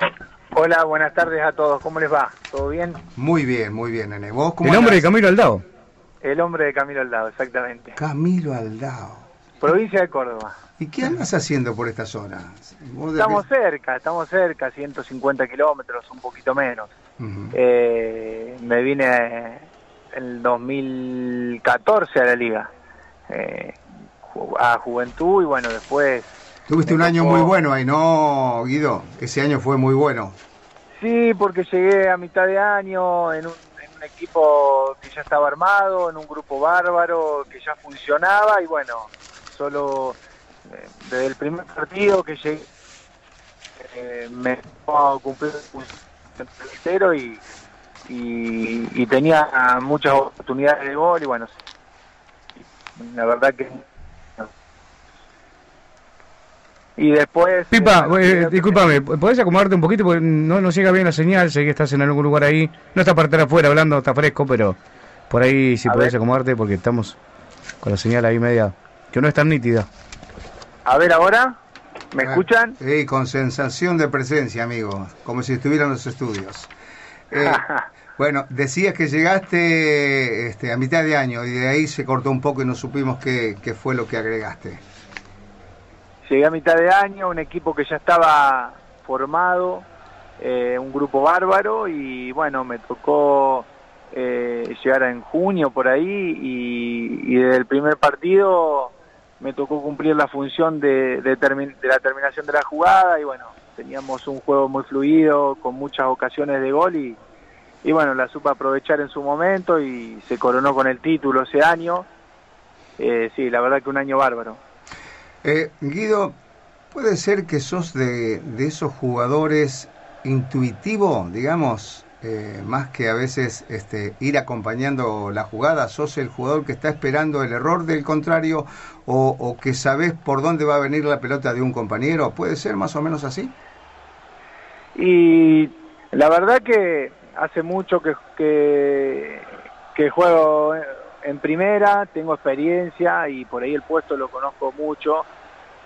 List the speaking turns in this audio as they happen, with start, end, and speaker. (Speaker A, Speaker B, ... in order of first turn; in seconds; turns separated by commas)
Speaker A: 0.5-3.0, Speaker B: 3.2-5.1, Speaker C: 4.6-5.6, Speaker A: 6.2-8.0, Speaker B: 8.0-9.3, Speaker A: 9.6-10.6, Speaker B: 10.8-13.4, Speaker A: 13.2-16.9, Speaker B: 17.2-17.5, Speaker A: 17.5-22.7, Speaker A: 23.3-26.3, Speaker B: 26.7-30.4, Speaker A: 26.9-27.5, Speaker A: 31.0-40.2, Speaker A: 40.7-42.7, Speaker A: 43.8-47.4, Speaker A: 48.1-51.5, Speaker A: 53.0-53.9, Speaker A: 57.0-58.9, Speaker C: 57.7-64.8, Speaker C: 65.3-67.2, Speaker A: 65.8-66.2, Speaker C: 67.8-69.9, Speaker A: 70.9-71.6, Speaker A: 72.1-72.8, Speaker B: 72.2-76.7, Speaker B: 77.3-77.6, Speaker A: 77.4-77.9, Speaker B: 78.2-84.8, Speaker A: 86.2-89.9, Speaker A: 90.4-107.2, Speaker A: 107.8-112.1, Speaker A: 113.0-114.6, Speaker B: 115.4-116.3, Speaker B: 116.9-133.5, Speaker A: 135.0-145.3